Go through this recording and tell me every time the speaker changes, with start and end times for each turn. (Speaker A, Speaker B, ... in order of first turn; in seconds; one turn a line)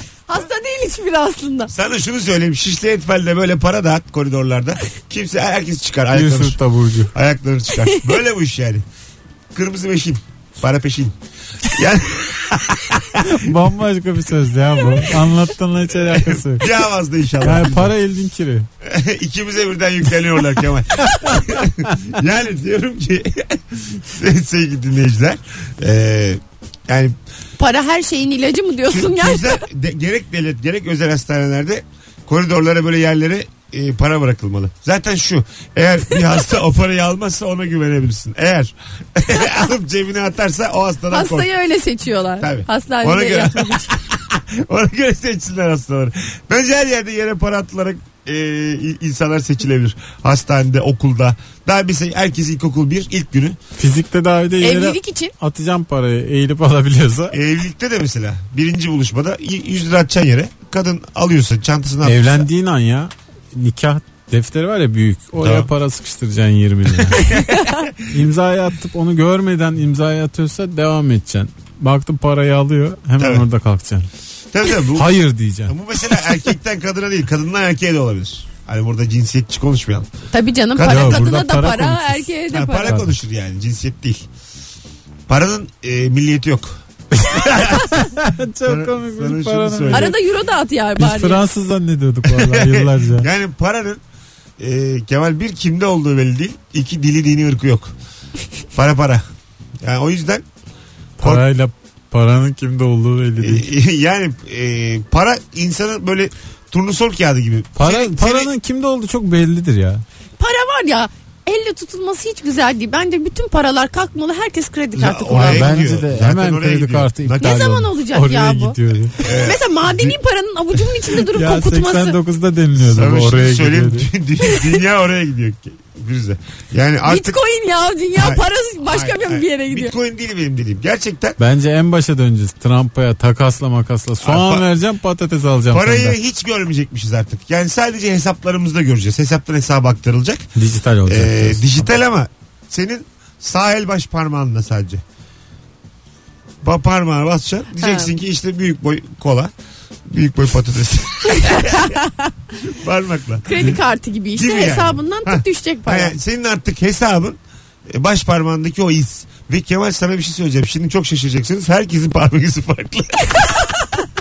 Speaker A: 0.3-1.7
Speaker B: 1.7-6.6
Speaker C: 6.1-7.1
Speaker B: 7.1-8.8
Speaker B: 9.5-13.3
Speaker C: 13.2-16.7
Speaker B: 15.9-17.9
Speaker C: 17.4-18.7
Speaker B: 18.8-27.1
Speaker C: 21.2-21.6
Speaker A: 27.6-29.6
Speaker B: 28.9-41.5
Speaker A: 41.1-44.0
Speaker B: 42.4-53.6
Speaker C: 53.8-57.4
Speaker A: 54.6-55.3
Speaker B: 57.3-62.5
Speaker C: 62.0-67.2
Speaker B: 65.4-65.7
Speaker B: 67.0-67.9
Speaker C: 68.1-74.1
Speaker B: 73.2-73.4
Speaker B: 74.5-75.1
Speaker C: 74.9-75.7
Speaker B: 75.7-80.1
Speaker A: 80.3-83.0
Speaker B: 80.7-81.3
Speaker C: 80.9-82.3
Speaker B: 82.5-84.3
Speaker C: 82.8-83.1
Speaker B: 85.3-88.0
Speaker C: 87.6-90.1
Speaker B: 88.6-90.2
Speaker A: 89.9-91.4
Speaker C: 91.0-93.3
Speaker B: 92.2-94.0
Speaker B: 94.6-97.9
Speaker B: 98.7-99.2
Speaker B: 99.8-100.4
Speaker C: 101.2-103.7
Speaker B: 103.4-108.5
Speaker C: 107.8-110.0
Speaker A: 110.4-115.7
Speaker B: 114.9-117.7
Speaker C: 115.3-119.2
Speaker A: 117.4-122.2
Speaker B: 119.2-120.2
Speaker C: 121.3-124.1
Speaker B: 122.8-127.4
Speaker A: 124.4-124.8
Speaker A: 127.0-129.9
Speaker B: 128.2-131.4
Speaker C: 131.4-136.2
Speaker B: 134.2-134.6
Speaker B: 135.7-140.5
Speaker C: 140.6-141.9
Speaker B: 141.1-145.0
Speaker B: 146.6-149.5
Speaker A: 147.8-148.1
Speaker B: 150.1-152.0
Speaker A: 151.3-152.3
Speaker B: 152.7-153.6
Speaker A: 153.5-156.1
Speaker B: 154.3-163.7